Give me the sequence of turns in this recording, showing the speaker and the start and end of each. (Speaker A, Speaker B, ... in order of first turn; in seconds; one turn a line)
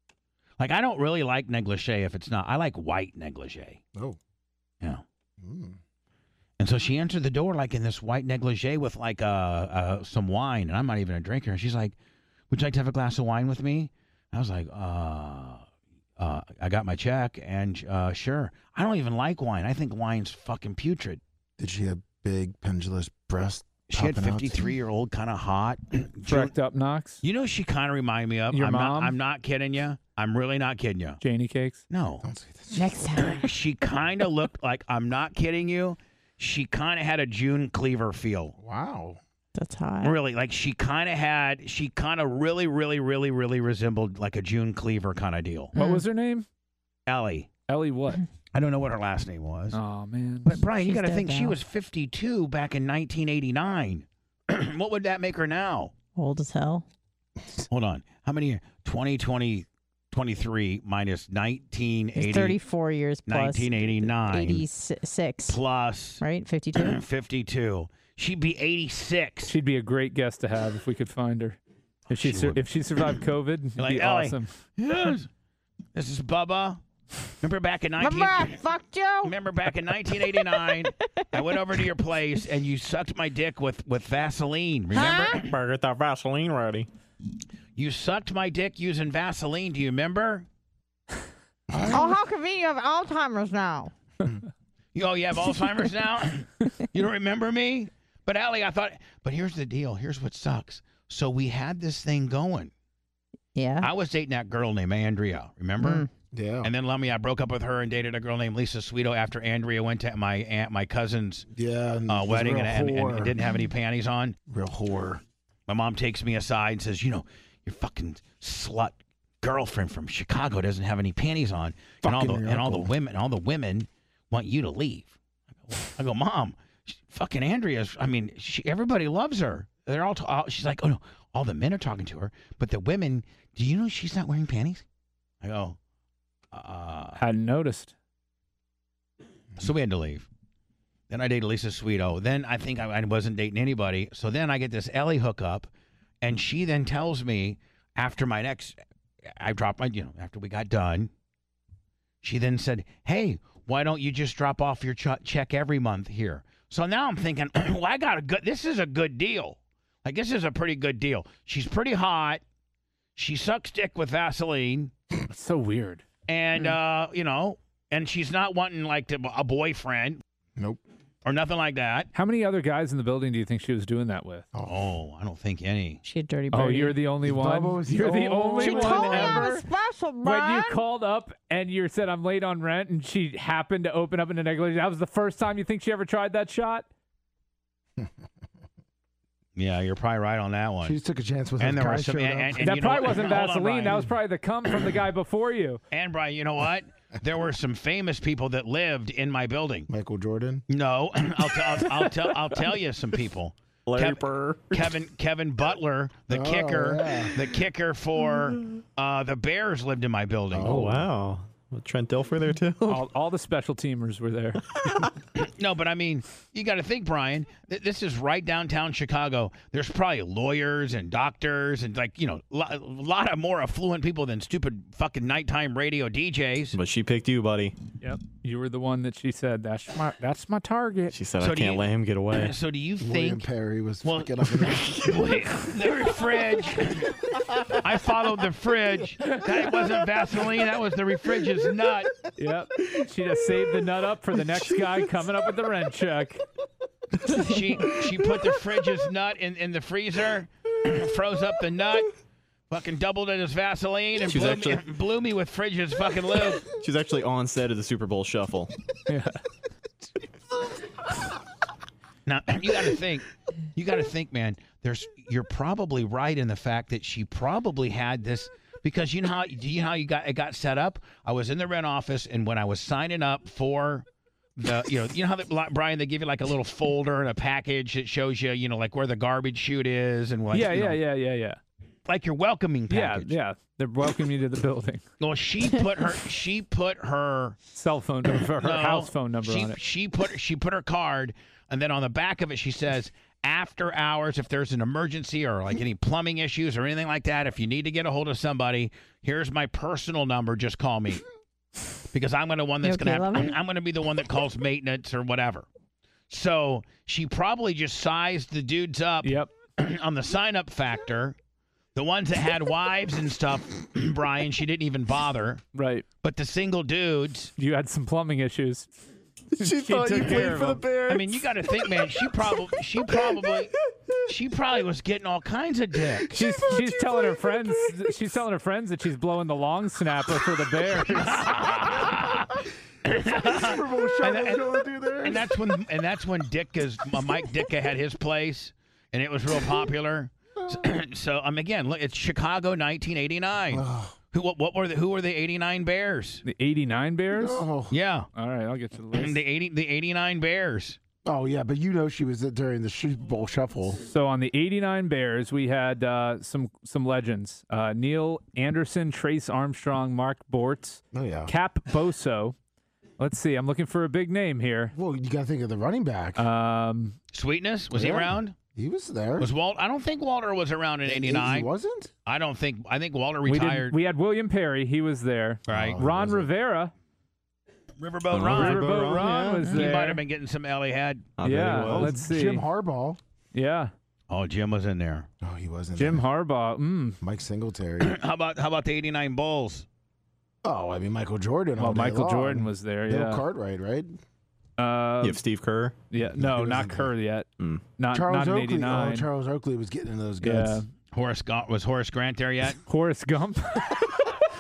Speaker A: 0.6-3.8
Speaker B: 5.4-5.8
Speaker A: 6.6-12.0
Speaker A: 12.5-15.7
Speaker A: 16.2-21.2
Speaker B: 21.6-24.7
Speaker A: 23.9-26.5
Speaker C: 26.3-27.2
Speaker A: 27.2-31.2
Speaker C: 28.5-29.2
Speaker C: 31.2-31.8
Speaker A: 31.9-32.2
Speaker B: 32.2-33.1
Speaker D: 32.8-33.5
Speaker A: 33.2-38.5
Speaker B: 38.6-39.2
Speaker D: 39.5-40.2
Speaker A: 40.0-45.7
Speaker D: 45.8-46.0
Speaker C: 45.8-46.5
Speaker A: 47.1-47.5
Speaker C: 47.7-48.2
Speaker A: 48.5-49.8
Speaker C: 49.7-50.5
Speaker A: 50.5-55.9
Speaker D: 50.6-51.6
Speaker D: 56.2-56.9
Speaker A: 57.7-62.6
Speaker D: 62.2-65.6
Speaker A: 63.3-64.7
Speaker A: 65.5-66.2
Speaker D: 66.2-67.0
Speaker A: 66.8-69.5
Speaker C: 69.5-71.6
Speaker A: 72.1-72.6
Speaker C: 72.1-74.5
Speaker A: 73.8-75.3
Speaker A: 76.0-76.8
Speaker A: 77.4-78.6
Speaker D: 78.0-79.3
Speaker A: 79.2-85.5
Speaker D: 80.1-81.6
Speaker D: 85.0-85.3
Speaker E: 85.1-86.9
Speaker A: 87.8-90.5
Speaker B: 91.7-92.2
Speaker D: 91.9-93.9
Speaker A: 95.0-102.7
Speaker D: 103.5-103.9
Speaker A: 103.8-106.0
Speaker D: 105.8-106.1
Speaker B: 106.3-106.7
Speaker A: 106.6-111.5
Speaker B: 111.5-113.3
Speaker A: 112.1-114.4
Speaker B: 114.5-115.2
Speaker A: 115.7-125.1
Speaker B: 122.0-122.9
Speaker A: 125.7-134.8
Speaker A: 135.4-135.8
Speaker A: 136.5-137.2
Speaker C: 137.2-137.9
Speaker A: 139.6-140.3
Speaker A: 141.1-145.7
Speaker A: 146.2-148.8
Speaker A: 149.3-151.1
Speaker A: 152.2-162.4
Speaker A: 163.2-164.9
Speaker C: 165.3-166.0
Speaker A: 166.3-170.2
Speaker B: 170.6-170.8
Speaker A: 171.2-172.1
Speaker C: 172.1-174.5
Speaker B: 174.5-174.8
Speaker A: 174.7-176.0
Speaker D: 176.0-177.0
Speaker C: 176.5-179.6
Speaker B: 177.2-179.6
Speaker D: 178.0-180.8
Speaker C: 180.2-186.9
Speaker A: 189.6-191.0
Speaker B: 190.8-192.7
Speaker A: 191.6-194.1
Speaker C: 192.6-195.8
Speaker A: 195.9-199.9
Speaker B: 199.9-200.7
Speaker A: 200.7-210.9
Speaker E: 203.9-205.0
Speaker B: 206.3-207.4
Speaker B: 210.5-211.1
Speaker E: 210.6-213.1
Speaker C: 212.9-214.7
Speaker E: 214.8-215.1
Speaker A: 215.3-226.8
Speaker E: 226.7-227.8
Speaker C: 228.0-231.2
Speaker E: 231.1-232.6
Speaker A: 231.4-233.5
Speaker B: 233.0-235.1
Speaker A: 234.0-242.1
Speaker C: 242.4-246.4
Speaker A: 247.3-252.1
Speaker A: 252.7-256.7
Speaker E: 254.2-254.9
Speaker E: 256.6-258.7
Speaker C: 259.1-259.4
Speaker A: 262.3-274.1
Speaker A: 274.6-281.0
Speaker C: 280.5-281.6
Speaker A: 282.1-283.3
Speaker C: 282.9-285.1
Speaker A: 285.2-287.6
Speaker C: 287.7-289.8
Speaker A: 288.6-301.2
Speaker A: 302.1-305.7
Speaker D: 302.8-303.6
Speaker A: 306.3-311.4
Speaker C: 309.2-309.5
Speaker A: 311.9-315.6
Speaker C: 315.8-316.1
Speaker A: 316.2-317.5
Speaker C: 317.6-318.9
Speaker E: 319.6-321.9
Speaker C: 319.6-320.9
Speaker A: 321.1-323.7
Speaker A: 324.3-326.4
Speaker C: 326.3-331.7
Speaker A: 331.1-346.4
Speaker B: 333.1-335.5
Speaker B: 340.6-340.9
Speaker B: 343.7-344.2
Speaker C: 346.4-347.7
Speaker B: 347.3-347.9
Speaker A: 347.9-348.3
Speaker C: 348.4-349.4
Speaker A: 349.1-351.0
Speaker B: 351.2-354.0
Speaker C: 354.0-362.6
Speaker B: 361.1-361.5
Speaker C: 363.2-364.9
Speaker B: 364.9-366.5
Speaker C: 366.4-367.2
Speaker A: 367.3-368.6
Speaker B: 367.9-369.5
Speaker A: 369.4-371.7
Speaker B: 371.1-372.1
Speaker A: 372.2-373.9
Speaker C: 373.4-376.9
Speaker A: 375.7-376.0
Speaker B: 375.7-376.5
Speaker A: 378.0-381.3
Speaker E: 378.3-379.8
Speaker C: 378.4-380.2
Speaker E: 381.4-382.2
Speaker C: 381.4-382.6
Speaker B: 381.8-383.2
Speaker C: 383.5-383.9
Speaker A: 384.3-385.3
Speaker B: 385.4-386.3
Speaker C: 386.0-387.2
Speaker B: 387.2-388.2
Speaker A: 388.0-389.9
Speaker B: 390.6-394.2
Speaker C: 391.8-393.4
Speaker C: 394.8-395.4
Speaker E: 395.2-396.0
Speaker C: 396.1-399.3
Speaker B: 396.3-397.1
Speaker B: 398.1-400.8
Speaker C: 400.4-400.9
Speaker A: 401.1-402.8
Speaker C: 402.9-404.3